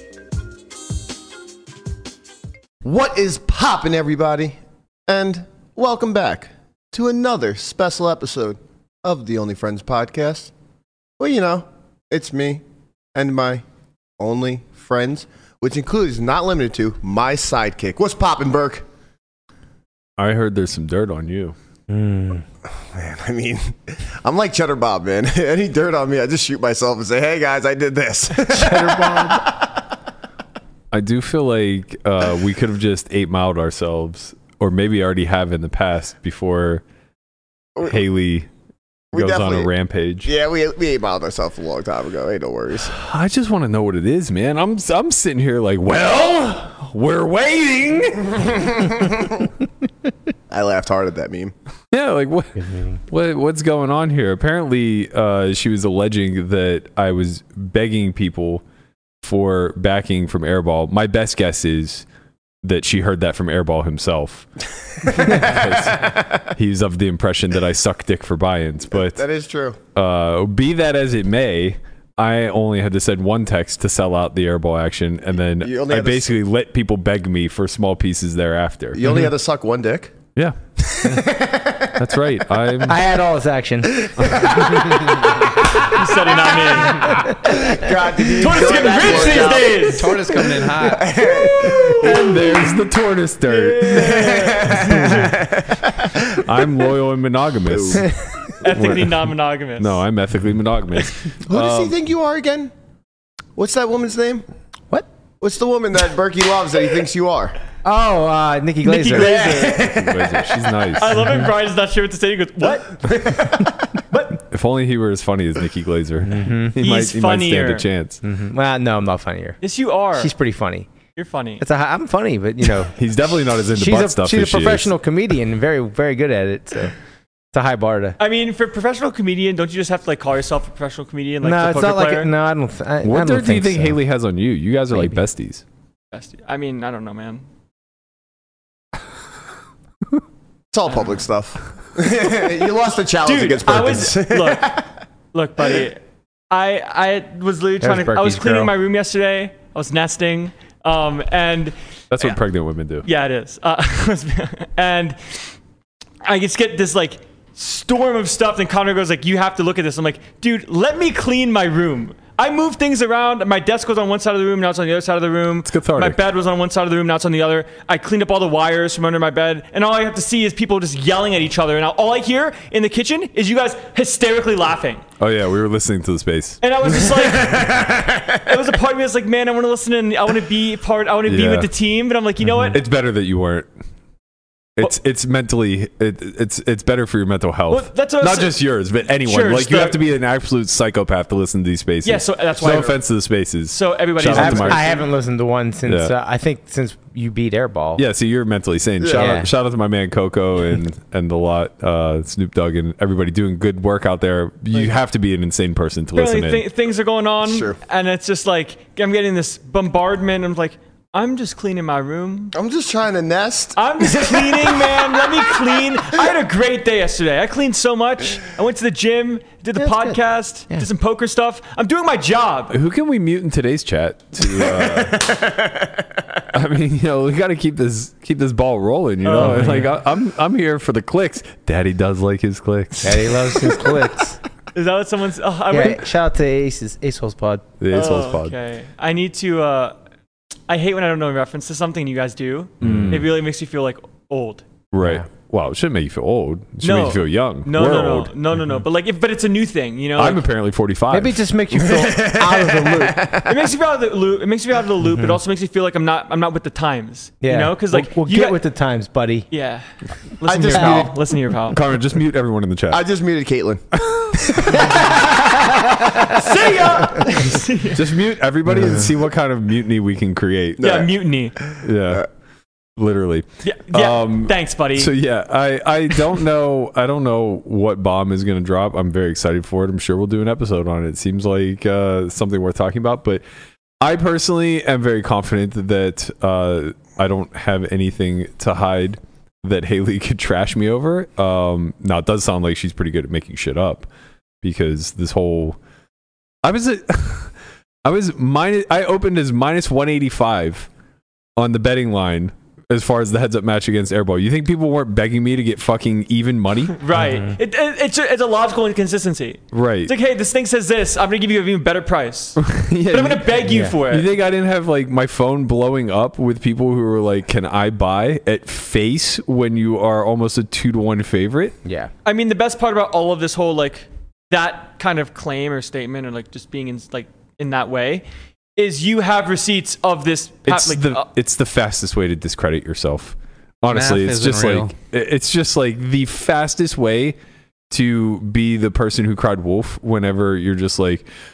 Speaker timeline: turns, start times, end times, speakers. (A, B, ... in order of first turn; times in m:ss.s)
0:02.8-0:10.5 A
0:11.2-0:12.6 A
0:13.1-0:13.6 A
0:14.2-0:18.8 A
0:20.2-0:21.6 B
0:21.9-0:22.4 C
0:22.9-0:29.8 A
0:28.4-0:29.4 C
0:30.9-0:36.8 B
0:37.8-0:38.5 B
0:39.1-0:39.7 A
0:39.1-0:40.3 B
0:40.2-0:42.9 A
0:42.8-0:48.8 B
0:48.5-0:49.4 A
0:50.5-0:51.5 A
0:51.9-0:58.6 B
0:52.6-0:53.0 C
0:59.2-1:02.0 B
1:02.6-1:04.5 B
1:05.0-1:09.2 B
1:05.0-1:06.2 A
1:09.0-1:09.8 A
1:09.9-1:19.1 B
1:15.6-1:16.4 A
1:18.9-1:20.1 A
1:20.4-1:21.2 B
1:20.9-1:22.0 A
1:21.9-1:23.0 B
1:22.8-1:25.1 C
1:24.0-1:25.5 A
1:24.2-1:24.8 B
1:25.8-1:27.2 D
1:26.4-1:30.0 A
1:28.4-1:30.2 D
1:29.0-1:31.2 E
1:30.8-1:32.5 A
1:31.6-1:32.3 D
1:31.6-1:34.2 B
1:33.4-1:34.8 D
1:33.8-1:36.5 A
1:34.8-1:35.3 C
1:34.8-1:35.3 B
1:36.3-1:41.9 B
1:37.7-1:38.0 A
1:38.6-1:40.0 D
1:41.4-1:42.7 A
1:43.6-1:44.4 A
1:45.4-1:47.6 A
1:47.8-1:49.5 C
1:48.8-1:49.8 D
1:49.1-1:50.6 A
1:49.7-1:51.2 B
1:51.0-1:53.0 D
1:53.0-1:53.9 A
1:54.1-1:54.4 D
1:54.5-1:58.2 B
1:56.3-1:56.8 C
1:56.8-1:57.8 D
1:58.2-1:59.6 C
1:59.6-2:00.3 D
2:00.1-2:00.9 C
2:01.2-2:01.6 D
2:01.6-2:02.9 C
2:02.9-2:04.9 B
2:03.7-2:06.9 C
2:07.5-2:08.2 C
2:08.2-2:12.3 D
2:11.4-2:14.0 C
2:13.0-2:15.6 B
2:16.1-2:17.4 D
2:20.7-2:24.9 A
2:20.9-2:21.1 D
2:23.2-2:32.4 D
2:27.8-2:28.7 C
2:32.1-2:33.0 B
2:33.0-2:35.5 D
2:36.2-2:55.0 D
2:45.6-2:46.2 B
2:55.2-2:56.6 B
2:56.6-2:57.8 D
2:57.2-2:58.4 A
2:58.4-3:02.8 D
3:01.2-3:01.7 B
3:02.7-3:03.7 B
3:04.8-3:14.9 B
3:07.7-3:08.6 D
3:09.2-3:10.0 D
3:12.0-3:13.0 D
3:13.7-3:15.0 D
3:14.3-3:18.0 C
3:15.8-3:16.1 B
3:18.0-3:26.6 B
3:19.0-3:19.4 A
3:19.1-3:19.5 C
3:26.1-3:32.5 D
3:27.4-3:27.8 A
3:32.5-3:35.8 A
3:33.8-3:42.8 D
3:39.8-3:40.2 C
3:42.7-3:45.3 B
3:44.5-3:46.0 A
3:46.5-3:53.8 B
3:49.2-3:49.9 D
3:49.4-3:49.8 C
3:53.0-3:54.4 C
3:54.7-3:56.0 D
3:55.7-3:57.7 C
3:57.8-3:58.6 B
3:57.9-4:00.0 D
3:57.9-3:58.3 A
4:00.7-4:04.6 D
4:02.8-4:03.3 B
4:04.9-4:08.3 B
4:06.8-4:10.4 D
4:10.2-4:11.4 B
4:11.1-4:13.3 C
4:11.8-4:13.7 A
4:13.4-4:18.6 D
4:17.4-4:19.5 C
4:19.5-4:21.8 D
4:20.4-4:21.1 A
4:20.7-4:21.1 C
4:21.7-4:23.0 B
4:22.9-4:24.9 A
4:24.0-4:24.8 B
4:24.7-4:26.2 C
4:26.2-4:28.0 D
4:27.9-4:30.9 B
4:30.8-4:32.2 A
4:30.8-4:31.6 D
4:31.8-4:32.2 B
4:33.0-4:43.4 B
4:33.6-4:35.1 D
4:44.0-4:54.1 B
4:54.6-4:55.8 B
4:56.6-4:57.5 B
4:58.0-5:00.9 B
5:01.6-5:07.0 B
5:06.9-5:14.3 D
5:09.7-5:10.1 B
5:12.6-5:21.8 B
5:13.6-5:14.0 C
5:21.8-5:22.1 C
5:22.2-5:28.2 D
5:28.8-5:31.3 D
5:30.6-5:37.4 B
5:33.9-5:34.9 E
5:37.9-5:41.3 B